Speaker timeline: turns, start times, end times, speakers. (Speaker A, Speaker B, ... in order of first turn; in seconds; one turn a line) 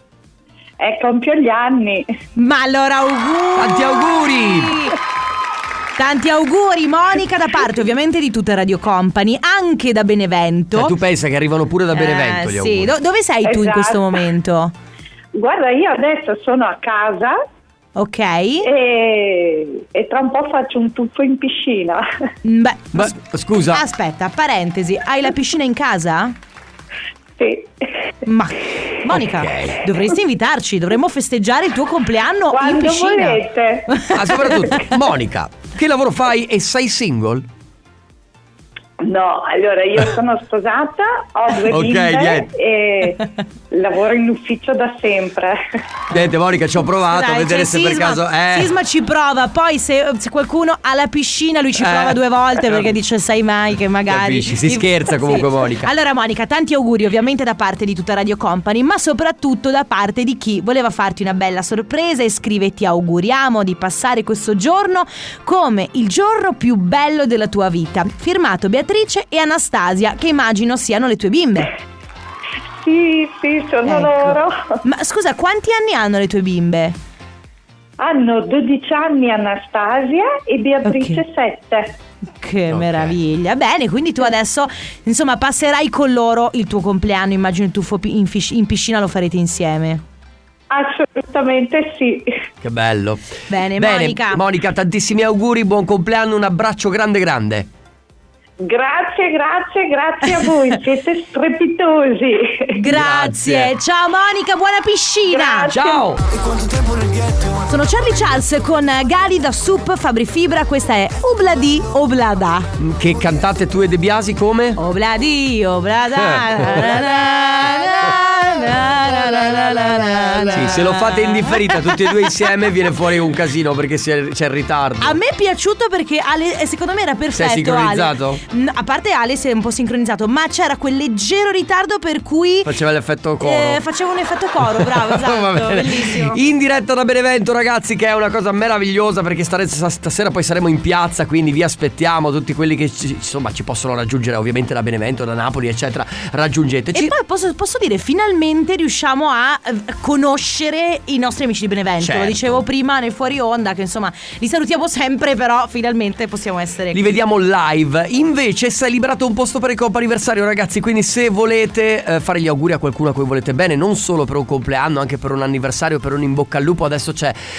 Speaker A: 0.8-2.1
Speaker B: 2.4-5.0
Speaker C: 3.6-4.9
Speaker B: 6.0-10.9
Speaker C: 10.7-12.9
Speaker B: 11.9-14.7
Speaker A: 13.4-14.2
Speaker A: 15.3-17.4
Speaker B: 17.9-18.7
Speaker A: 18.6-22.0
Speaker B: 22.4-23.1
Speaker C: 22.9-23.8
Speaker B: 23.7-26.3
Speaker A: 27.4-28.0
Speaker B: 28.2-33.4
Speaker C: 29.1-29.8
Speaker A: 32.5-34.1
Speaker B: 33.9-34.8
Speaker C: 34.1-37.5
Speaker A: 39.0-45.6
Speaker C: 41.7-42.5
Speaker C: 46.1-48.7
Speaker B: 47.0-71.7
Speaker C: 51.8-52.9
Speaker C: 54.1-55.9
Speaker A: 72.8-74.8
Speaker B: 73.8-77.0
Speaker A: 78.0-81.9
Speaker B: 80.8-81.2
Speaker B: 82.4-90.0
Speaker C: 82.7-83.1
Speaker A: 90.7-92.3
Speaker C: 92.6-97.7
Speaker B: 93.5-94.4
Speaker A: 98.6-102.8
Speaker B: 102.7-105.8
Speaker C: 102.9-103.7
Speaker A: 105.3-106.0
Speaker C: 105.7-106.2
Speaker B: 107.7-112.7
Speaker C: 112.8-114.8
Speaker B: 114.8-122.3
Speaker C: 116.2-117.0
Speaker C: 120.5-125.2
Speaker B: 125.0-132.7
Speaker C: 127.3-128.4
Speaker C: 132.6-133.8
Speaker B: 133.4-136.4
Speaker C: 134.6-147.1
Speaker B: 146.9-157.0
Speaker C: 152.0-152.6
Speaker C: 156.9-167.4